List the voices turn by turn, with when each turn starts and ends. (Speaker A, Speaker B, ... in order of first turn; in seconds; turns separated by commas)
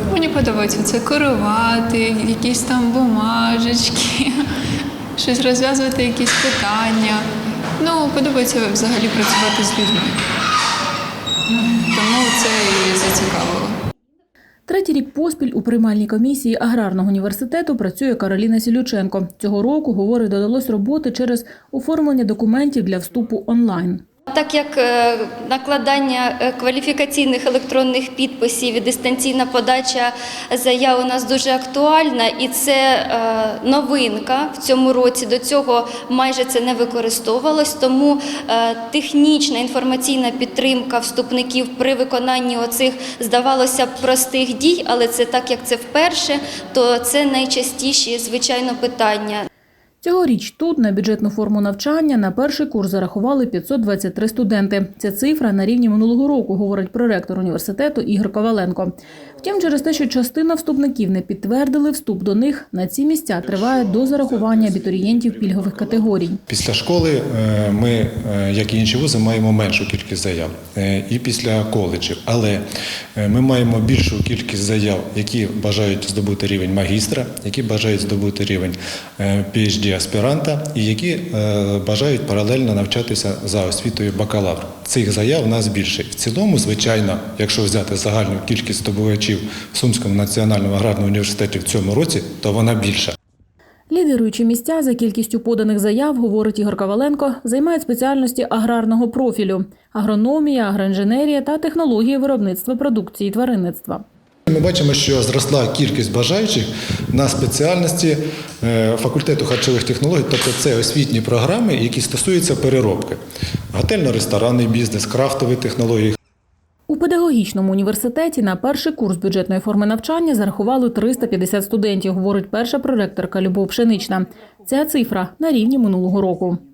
Speaker A: 0.1-4.3, Speaker A: 5.2-7.3, Speaker A: 7.8-10.2, Speaker A: 11.5-13.8, Speaker B: 14.7-24.0, Speaker C: 24.3-49.5, Speaker B: 50.0-66.4, Speaker D: 66.5-72.6, Speaker D: 73.2-93.2, Speaker B: 93.9-104.0, Speaker D: 104.5-113.2, Speaker D: 113.7-116.2, Speaker B: 116.9-126.6